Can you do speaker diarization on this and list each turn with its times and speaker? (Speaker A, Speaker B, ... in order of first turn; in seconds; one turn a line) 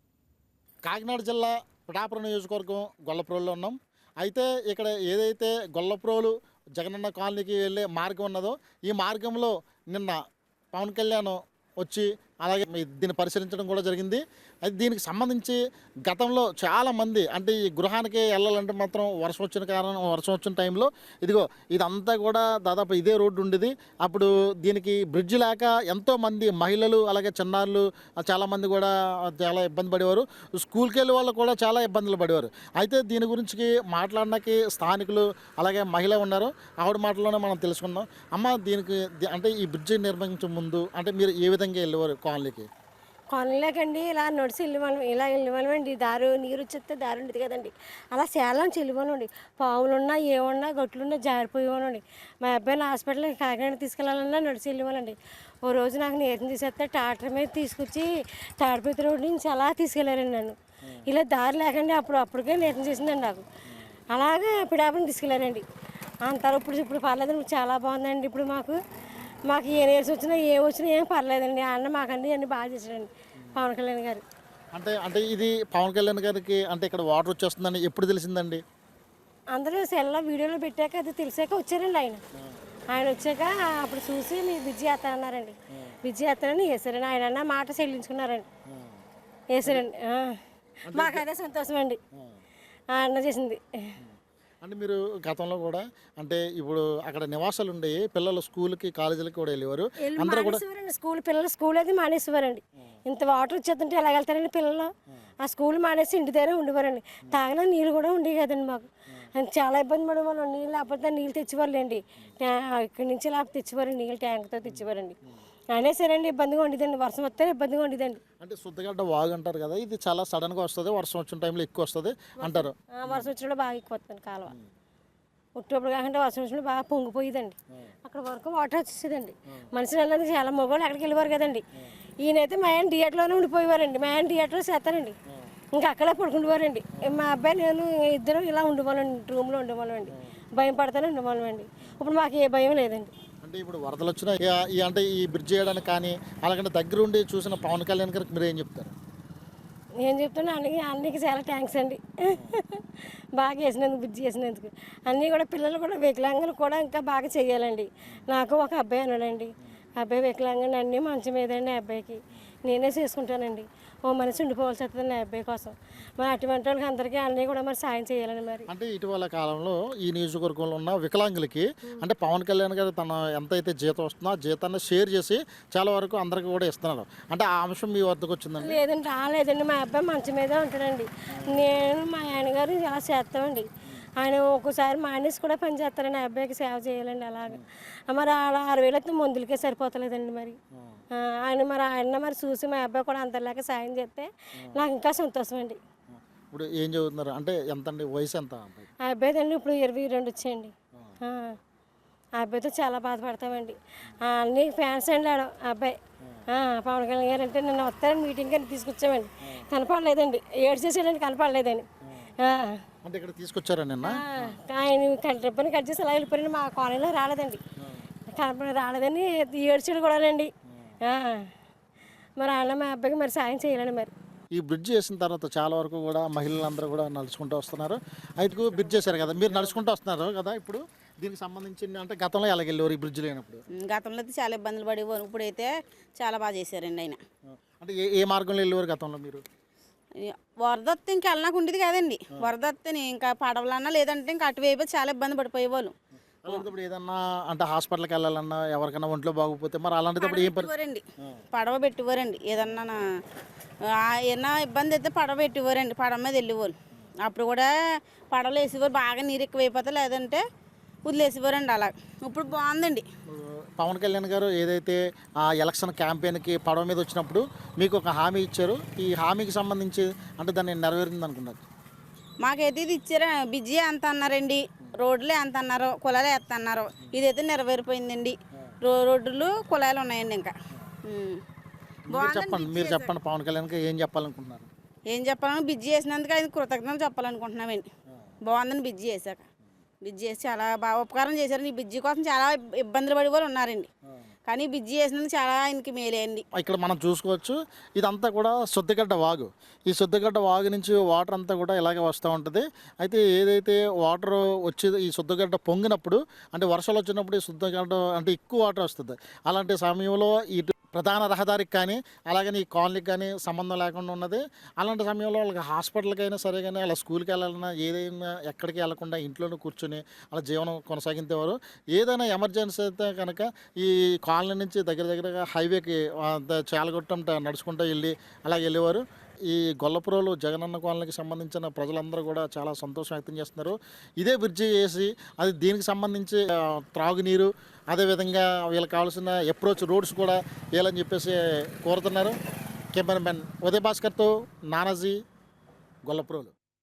Speaker A: 0.8-10.2
Speaker A: 10.7-42.7
Speaker B: 43.3-63.4
Speaker B: 64.1-65.6
Speaker B: 66.2-68.8
Speaker B: 69.5-74.2
Speaker A: 74.7-78.6
Speaker B: 79.5-82.2
Speaker B: 82.9-88.5
Speaker B: 89.5-90.4
Speaker A: 90.9-91.2
Speaker B: 90.9-92.0
Speaker B: 92.9-93.9
Speaker A: 94.6-100.6
Speaker B: 100.0-104.9
Speaker B: 105.4-115.2
Speaker B: 115.7-118.2
Speaker A: 118.4-123.3
Speaker B: 122.4-124.5
Speaker B: 125.6-131.6
Speaker B: 132.2-135.2
Speaker B: 135.7-143.1
Speaker A: 143.4-148.9
Speaker B: 150.0-152.8
Speaker B: 153.4-168.7
Speaker A: 168.7-178.8
Speaker B: 178.6-183.7
Speaker B: 184.2-190.6
Speaker B: 191.2-195.8
Speaker A: 196.1-198.9
Speaker B: 199.1-201.6
Speaker B: 202.4-205.9
Speaker B: 206.5-211.9
Speaker B: 212.4-212.8
Speaker A: 213.0-214.6
Speaker B: 214.1-217.6
Speaker B: 218.3-220.5
Speaker B: 221.0-221.5
Speaker B: 222.4-224.1
Speaker A: 224.5-233.6
Speaker C: 228.8-229.2
Speaker C: 233.8-237.2
Speaker A: 237.5-239.4
Speaker C: 240.2-245.9
Speaker A: 246.4-250.7
Speaker C: 250.2-253.0
Speaker C: 254.0-257.7
Speaker C: 258.3-260.4
Speaker C: 261.1-263.1
Speaker A: 263.3-271.6
Speaker C: 272.4-280.5
Speaker C: 281.1-281.4
Speaker A: 282.1-284.7
Speaker C: 282.1-283.1
Speaker C: 285.1-287.9
Speaker C: 288.4-289.4
Speaker C: 290.0-293.9
Speaker C: 294.4-296.4
Speaker A: 296.5-342.3
Speaker A: 342.9-345.2
Speaker A: 346.0-346.5